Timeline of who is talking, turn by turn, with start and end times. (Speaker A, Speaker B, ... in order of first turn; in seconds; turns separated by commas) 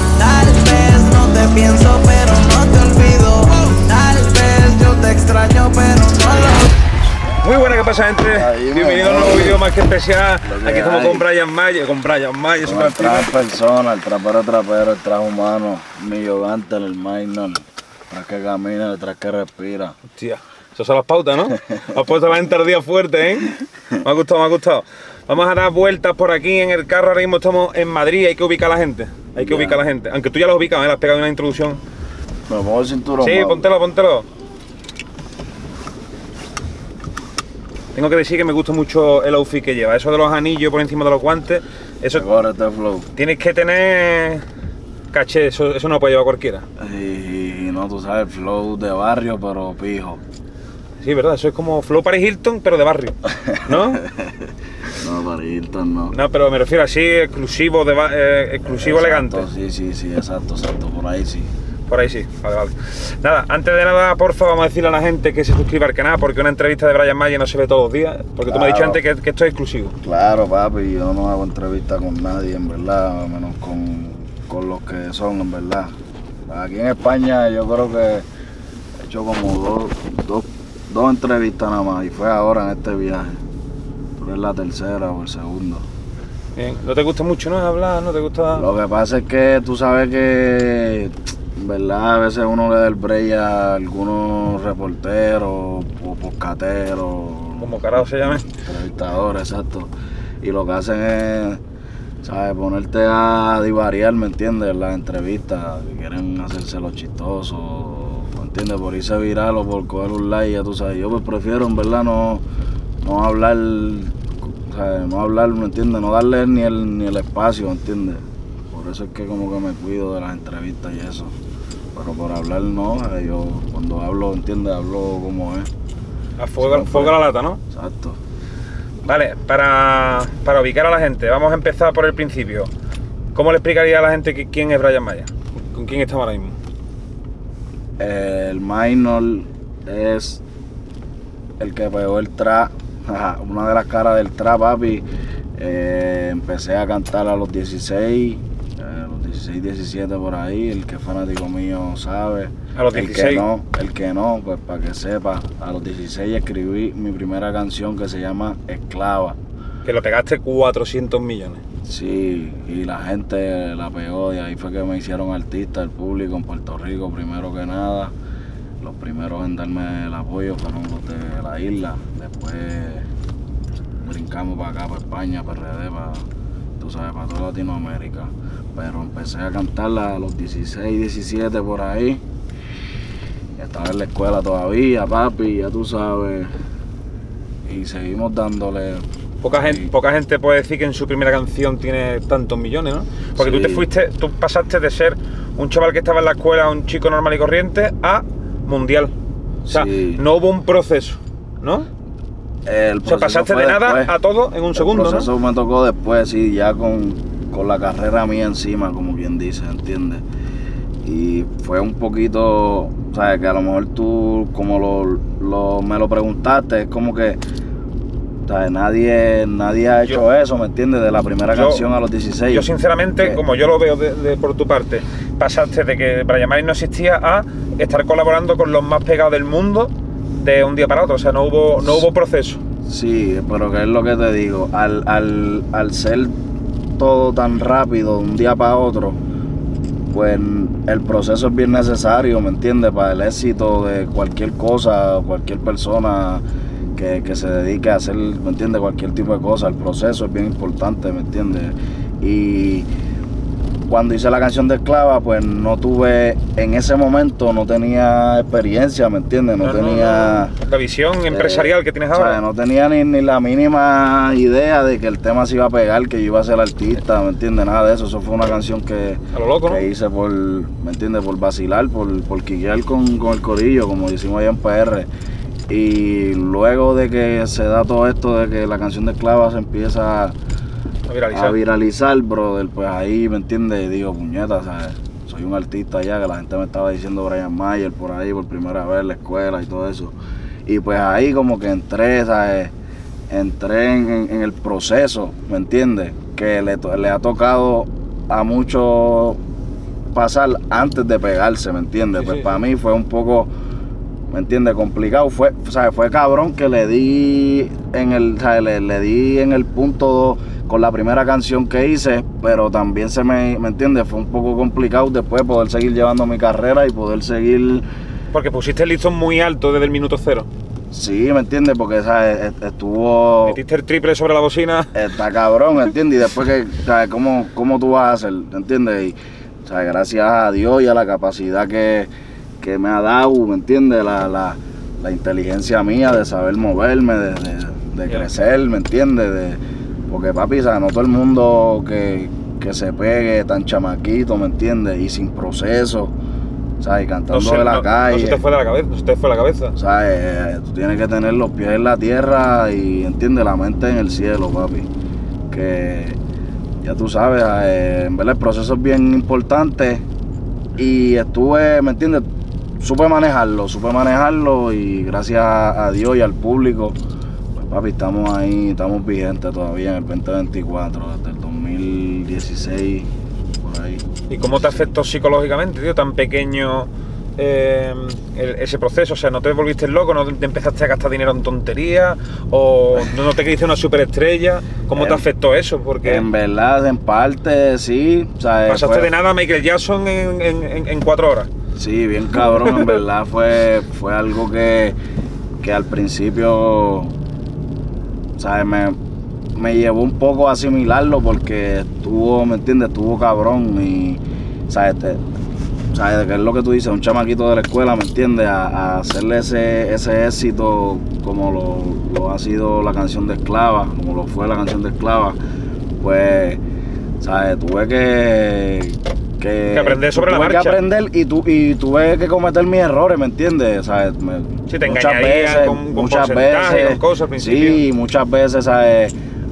Speaker A: 0.1-6.8, Speaker B: 7.4-13.3, Speaker C: 8.2-9.6, Speaker C: 10.4-11.3, Speaker C: 12.6-19.9, Speaker B: 20.1-31.8, Speaker C: 21.5-21.8, Speaker C: 29.4-29.8, Speaker C: 32.5-33.7, Speaker B: 33.2-34.2, Speaker B: 37.9-42.2, Speaker C: 42.1-43.1, Speaker B: 43.1-44.4, Speaker B: 45.1-46.6, Speaker C: 46.8-50.2, Speaker B: 51.0-54.0, Speaker C: 53.4-56.1, Speaker B: 56.1-59.5, Speaker C: 58.6-61.5, Speaker B: 61.9-70.0, Speaker C: 68.5-69.0, Speaker C: 70.0-75.9, Speaker C: 76.5-78.2, Speaker C: 79.0-83.4, Speaker C: 84.2-85.8, Speaker B: 86.5-88.7, Speaker C: 88.5-99.9, Speaker B: 97.6-98.4, Speaker C: 100.4-101.6, Speaker C: 102.2-112.4, Speaker C: 113.0-121.3, Speaker C: 121.9-125.7, Speaker B: 126.4-127.6, Speaker C: 126.6-128.2, Speaker B: 129.0-132.7, Speaker B: 133.3-136.6, Speaker C: 138.0-140.4, Speaker C: 141.6-145.0, Speaker C: 145.6-159.4, Speaker B: 152.7-153.4, Speaker B: 159.8-161.6, Speaker C: 161.8-168.1, Speaker C: 168.8-173.1, Speaker C: 174.0-176.3, Speaker C: 176.8-182.2, Speaker C: 183.6-186.5, Speaker C: 187.6-189.9, Speaker B: 189.4-199.1, Speaker C: 193.4-193.8, Speaker C: 199.6-200.2, Speaker B: 199.7-201.9, Speaker C: 202.7-204.1, Speaker B: 203.0-205.3, Speaker C: 204.7-210.2, Speaker C: 211.0-217.4, Speaker C: 218.4-222.7, Speaker B: 221.5-221.8, Speaker B: 222.5-232.6, Speaker C: 232.8-236.3, Speaker C: 237.0-239.2, Speaker C: 240.1-246.4, Speaker C: 246.9-252.9, Speaker C: 253.8-260.5, Speaker B: 259.6-262.4, Speaker C: 261.3-275.1, Speaker B: 269.3-269.8, Speaker C: 275.7-280.4, Speaker B: 281.1-281.6, Speaker C: 281.3-290.1, Speaker C: 290.6-292.7, Speaker C: 293.3-299.4, Speaker C: 300.1-303.5, Speaker B: 302.2-302.6, Speaker C: 304.3-317.9, Speaker B: 318.3-320.5, Speaker C: 320.9-323.6, Speaker B: 323.4-324.9, Speaker C: 324.9-346.1, Speaker C: 346.8-348.4, Speaker B: 347.3-349.8, Speaker C: 349.8-354.9, Speaker C: 355.5-356.2, Speaker C: 356.8-360.0, Speaker C: 360.8-362.2, Speaker C: 362.8-367.0, Speaker C: 367.5-374.0, Speaker B: 374.3-386.2, Speaker C: 384.9-385.2, Speaker C: 386.0-389.1, Speaker B: 388.7-391.5, Speaker C: 391.8-394.9, Speaker B: 392.6-393.0, Speaker C: 395.6-397.1, Speaker C: 398.4-399.0, Speaker C: 399.5-405.2, Speaker C: 405.9-415.4, Speaker C: 416.0-416.6, Speaker C: 417.2-429.1, Speaker B: 419.7-420.8, Speaker B: 424.7-427.8